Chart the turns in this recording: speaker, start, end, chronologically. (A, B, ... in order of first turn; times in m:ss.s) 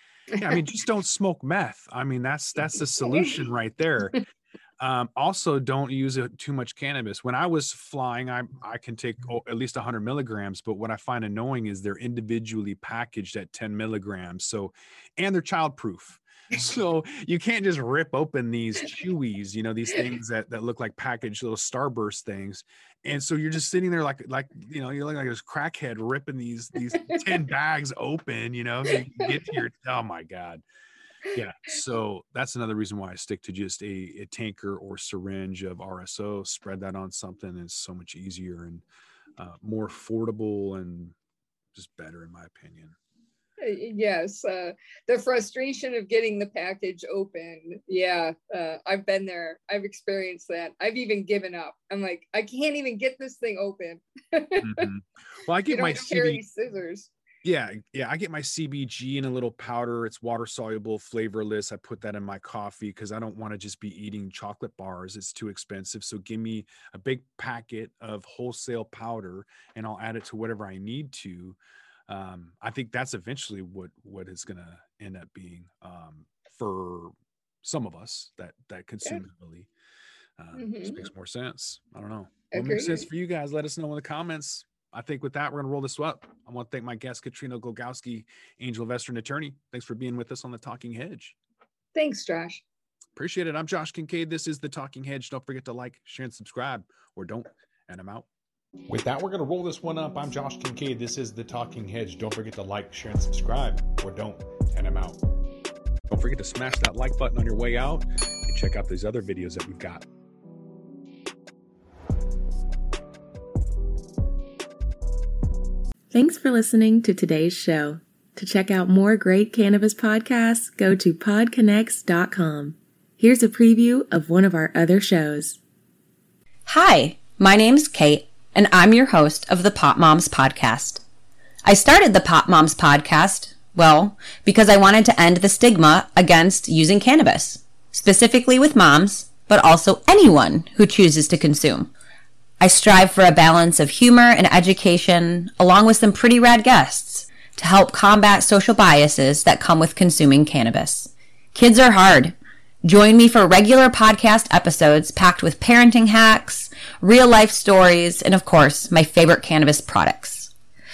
0:00.4-0:04.2 A
0:04.8-0:30.6 A
0:31.3-0:38.8 A
0:39.4-0:41.1 A
0:41.7-0:42.9 A
0:43.6-0:54.9 B
0:54.6-0:56.4 A
0:55.7-0:57.1 B
0:57.4-1:19.7 A
1:20.4-1:31.4 A
1:20.5-1:21.0 B
1:22.5-1:23.0 B
1:31.9-1:32.6 B
1:33.2-1:38.3 A
1:38.9-1:45.2 A
1:46.1-1:50.0 A
1:56.1-2:05.6 C
2:06.7-2:11.0 D
2:11.6-2:21.9 D
2:22.6-2:40.5 D